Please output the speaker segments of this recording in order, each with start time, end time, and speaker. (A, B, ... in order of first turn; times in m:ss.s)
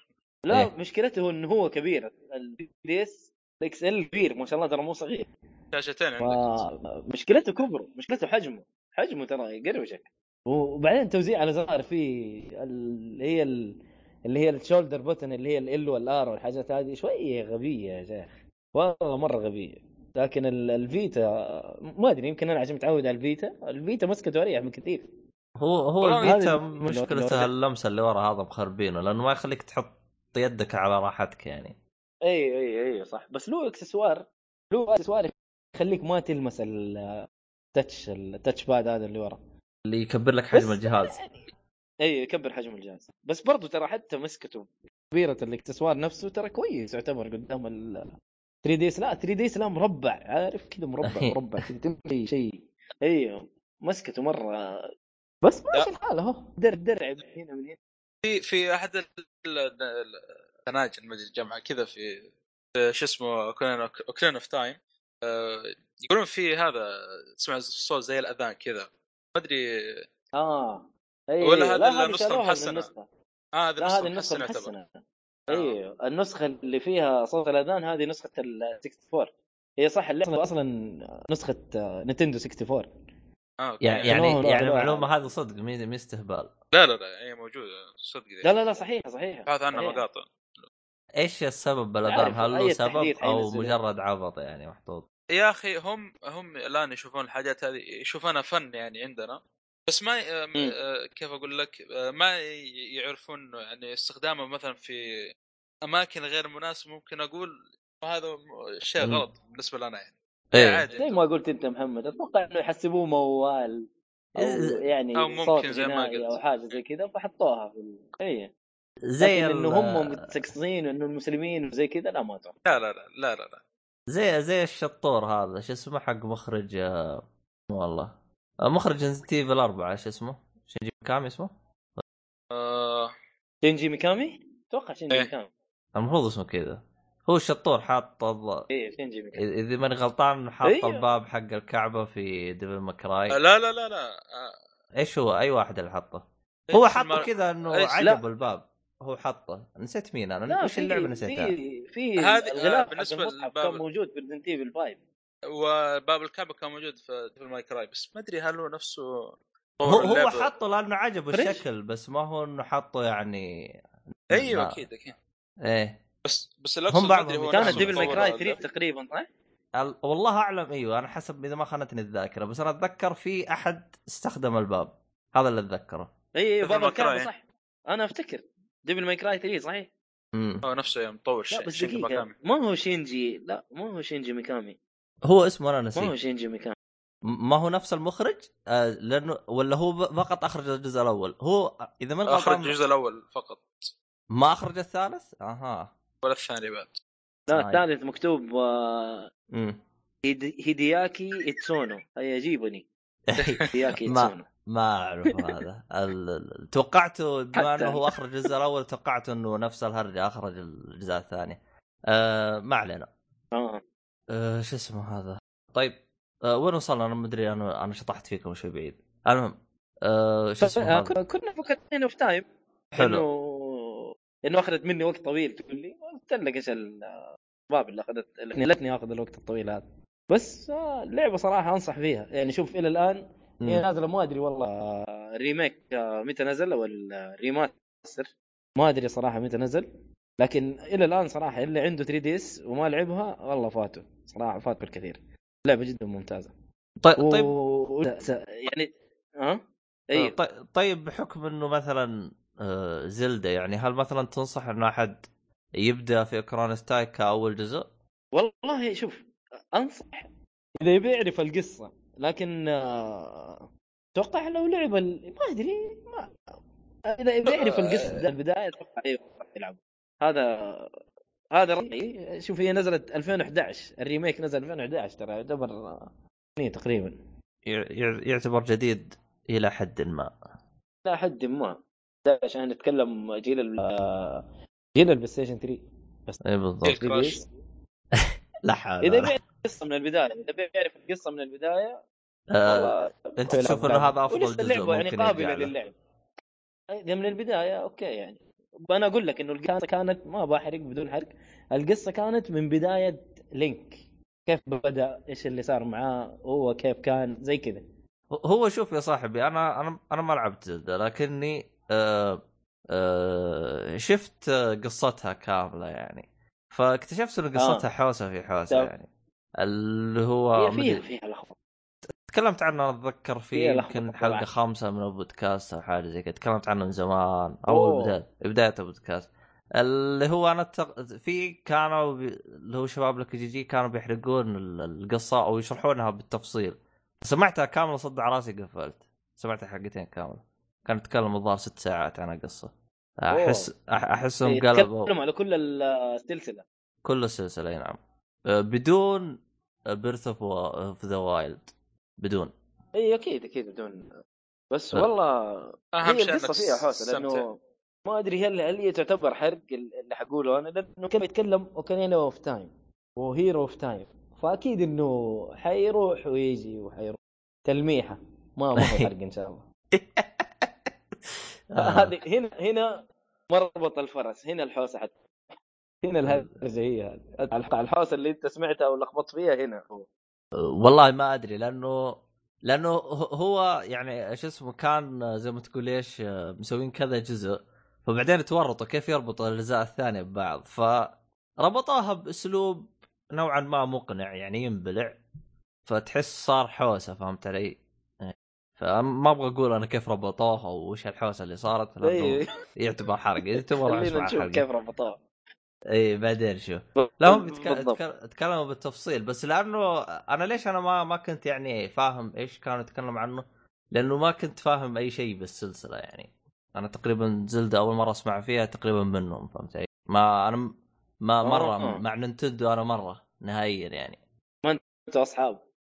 0:00.4-0:05.3 A
0:05.7-0:06.6 B
0:06.2-0:25.1 A
0:25.6-0:31.8 C
0:26.0-0:26.3 B
0:26.2-0:27.5 A
0:32.3-0:39.4 A
0:39.9-0:41.2 C
0:40.5-0:41.4 A
0:42.0-0:54.9 A
0:51.0-0:51.4 C
0:55.4-0:57.8 A
0:58.2-1:02.3 B
1:02.8-1:10.0 B
1:10.4-1:13.1 A
1:11.4-1:12.9 B
1:13.6-1:14.7 B
1:13.8-1:22.9 A
1:15.5-1:15.8 B
1:23.6-1:24.2 B
1:23.8-1:26.5 C
1:24.1-1:25.2 A
1:26.7-1:28.5 B
1:28.4-1:30.0 A
1:29.5-1:30.3 B
1:31.2-1:35.0 C
1:32.0-1:33.8 A
1:35.4-1:45.0 B
1:45.8-1:51.2 B
1:49.0-1:49.2 C
1:50.5-1:50.8 C
1:50.9-1:58.5 A
1:54.4-1:54.8 C
1:55.2-1:56.4 B
1:59.1-2:00.4 C
1:59.2-2:02.6 A
2:02.6-2:03.6 B
2:04.1-2:12.0 C
2:12.5-2:13.1 B
2:13.6-2:15.5 A
2:16.0-2:18.7 C
2:18.7-2:19.4 A
2:19.4-2:23.4 C
2:20.6-2:21.1 A
2:23.3-2:24.6 B
2:25.0-2:31.5 C
2:26.7-2:28.1 B
2:30.5-2:35.0 A
2:32.2-2:33.8 B
2:35.5-2:40.5 B
2:39.9-2:43.8 C
2:41.3-2:41.6 A
2:44.3-2:44.8 C
2:44.3-2:45.2 B
2:45.6-2:46.0 C
2:46.2-2:48.6 B
2:46.9-2:48.2 C
2:47.5-2:49.3 A
2:49.8-2:56.1 C
2:56.4-2:59.9 A
2:56.6-2:57.3 B
3:00.3-3:00.6 C
3:00.6-3:02.3 B
3:01.5-3:04.8 A
3:05.2-3:06.1 C
3:06.0-3:06.8 A
3:07.3-3:12.8 C
3:12.3-3:13.9 B
3:14.3-3:15.9 C
3:16.2-3:17.0 B
3:17.5-3:19.3 A
3:17.5-3:17.8 C
3:19.5-3:19.8 C
3:20.2-3:22.9 A
3:23.3-3:33.1 C
3:23.4-3:23.7 B
3:23.7-3:24.5 A
3:27.6-3:28.0 A
3:33.5-3:33.8 A
3:34.3-3:41.1 C
3:40.6-3:59.9 A
3:43.0-3:43.2 C
4:00.4-4:06.5 A
4:07.0-4:07.5 C
4:07.2-4:10.4 A
4:10.2-4:15.2 C
4:15.8-4:17.9 C
4:18.3-4:26.4 A
4:27.0-4:30.9 A
4:27.5-4:28.2 B
4:31.5-4:37.2 A
4:37.7-4:40.3 C
4:41.0-4:46.4 A
4:46.4-4:47.0 C
4:46.8-4:47.4 B
4:46.9-4:47.4 A
4:48.2-4:49.4 C
4:49.0-4:52.0 A
4:52.5-4:55.7 C
4:52.7-4:56.0 A
4:56.9-5:07.8 A
5:08.3-5:19.1 C
5:17.6-5:17.8 A
5:19.6-5:21.0 C
5:20.6-5:21.6 A
5:22.3-5:45.1 C
5:23.5-5:24.5 A
5:27.7-5:28.2 A
5:43.3-5:43.7 A
5:44.4-5:46.6 A
5:47.0-5:52.5 C
5:53.0-5:54.1 A
5:54.7-6:09.7 A
5:56.0-5:57.4 B
6:08.8-6:09.1 C
6:09.9-6:10.7 C
6:11.7-6:12.1 C
6:11.8-6:15.2 A
6:16.0-6:20.1 A
6:16.3-6:16.6 C
6:20.6-6:35.2 C
6:35.9-6:44.6 C
6:42.0-6:42.5 A
6:43.6-6:45.2 A
6:45.9-7:00.7 C
6:47.0-6:48.0 A
7:01.2-7:04.2 C
7:01.4-7:02.0 A
7:04.6-7:05.6 A